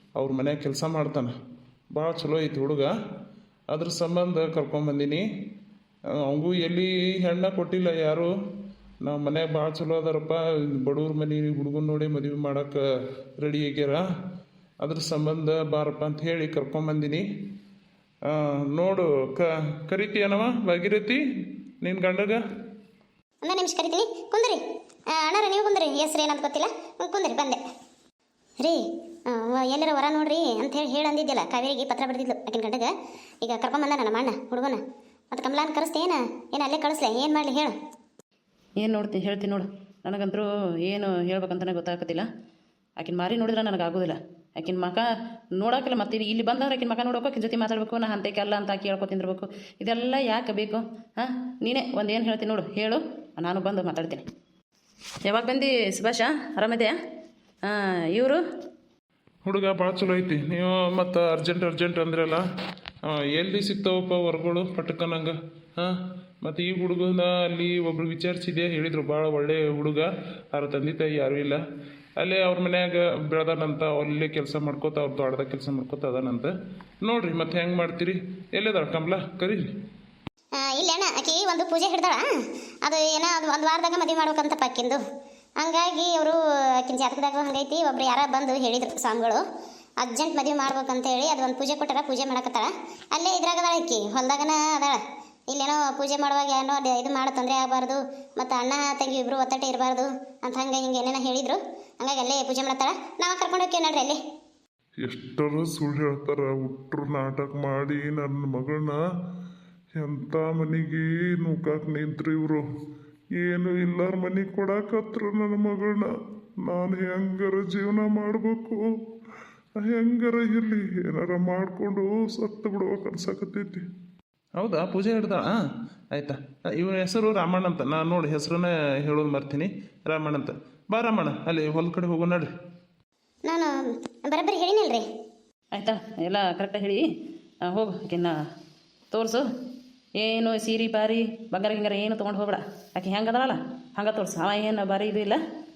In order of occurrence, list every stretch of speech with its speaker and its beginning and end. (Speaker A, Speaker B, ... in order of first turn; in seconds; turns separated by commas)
Speaker A: 0.1-1.3, Speaker A: 1.9-2.9, Speaker A: 3.7-5.2, Speaker A: 6.2-8.3, Speaker A: 9.0-12.8, Speaker A: 13.4-14.0, Speaker A: 14.8-17.2, Speaker A: 18.3-21.2, Speaker A: 21.8-22.4, Speaker B: 23.4-24.6, Speaker B: 25.1-27.6, Speaker B: 28.6-34.8, Speaker B: 35.3-37.7, Speaker C: 38.8-42.2, Speaker C: 43.0-45.0, Speaker C: 45.5-54.2, Speaker C: 55.2-56.9, Speaker C: 57.6-58.4, Speaker A: 59.4-62.4, Speaker A: 63.0-71.6, Speaker A: 72.2-76.5, Speaker A: 77.0-79.7, Speaker B: 80.5-82.3, Speaker B: 82.8-85.0, Speaker B: 85.6-89.4, Speaker B: 90.0-104.2, Speaker D: 105.0-109.0, Speaker D: 110.0-112.6, Speaker D: 113.4-116.1, Speaker D: 116.6-118.8, Speaker D: 119.8-123.8, Speaker A: 124.6-125.5, Speaker A: 126.1-132.5, Speaker B: 133.4-135.0, Speaker C: 135.7-137.0, Speaker C: 137.7-138.3, Speaker C: 139.1-139.4, Speaker C: 140.2-145.4